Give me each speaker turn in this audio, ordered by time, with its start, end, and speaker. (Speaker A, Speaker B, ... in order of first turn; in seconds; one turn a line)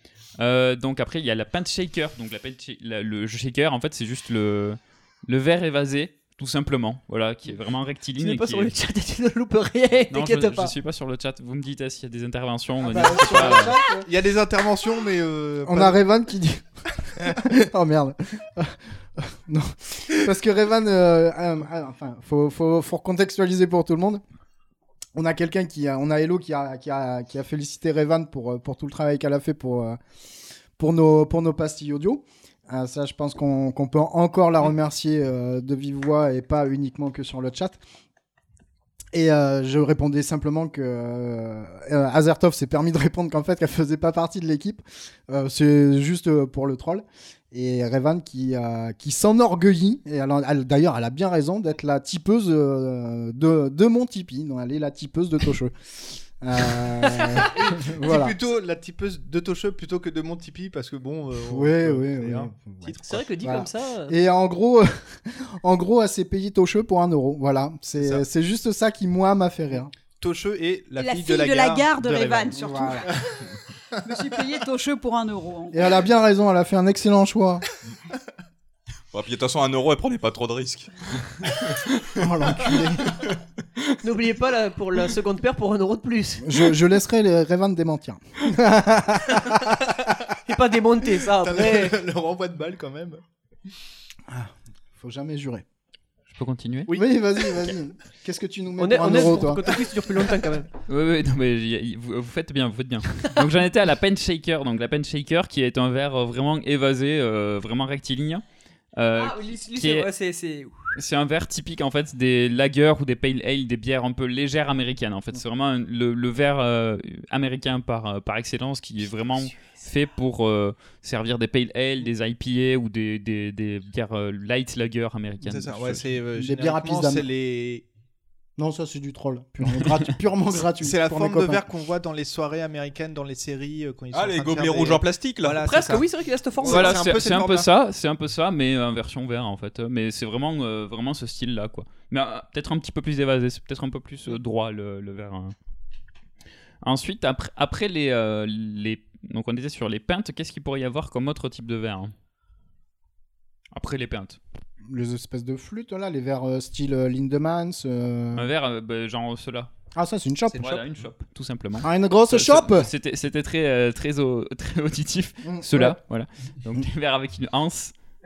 Speaker A: 0.4-8.7
Speaker B: 8.2-10.7
Speaker A: 10.1-13.8
Speaker C: 12.8-14.1
Speaker D: 13.2-16.0
Speaker C: 15.6-24.2
Speaker C: 25.1-30.0
Speaker C: 30.8-37.8
Speaker C: 39.1-58.4
Speaker D: 57.3-63.1
Speaker C: 61.5-69.9
Speaker B: 63.0-64.1
Speaker D: 68.0-68.2
Speaker D: 70.2-73.2
Speaker E: 71.0-73.1
Speaker C: 72.5-73.1
Speaker E: 74.0-75.8
Speaker C: 75.7-77.6
Speaker F: 79.1-80.9
Speaker F: 81.4-81.8
Speaker C: 82.1-83.1
Speaker B: 84.0-86.5
Speaker C: 86.4-89.8
Speaker B: 90.4-92.0
Speaker D: 91.4-93.2
Speaker C: 94.3-95.6
Speaker A: 96.3-96.9
Speaker C: 96.9-99.7
Speaker B: 98.8-100.7
Speaker A: 100.9-108.4
Speaker A: 109.0-110.1
Speaker B: 109.1-110.9
Speaker A: 110.9-126.1
Speaker B: 119.5-119.7
Speaker D: 125.4-127.8
Speaker C: 126.3-127.3
Speaker C: 128.6-131.6
Speaker A: 129.8-130.0
Speaker D: 130.8-137.7
Speaker F: 134.1-135.7
Speaker B: 135.6-137.0
Speaker A: 136.6-145.5
Speaker A: 146.8-152.1
Speaker A: 153.7-154.4
Speaker C: 154.8-158.5
Speaker A: 158.3-159.7
Speaker C: 159.9-160.7
Speaker A: 160.5-167.9
Speaker C: 161.8-162.9
Speaker C: 165.4-166.0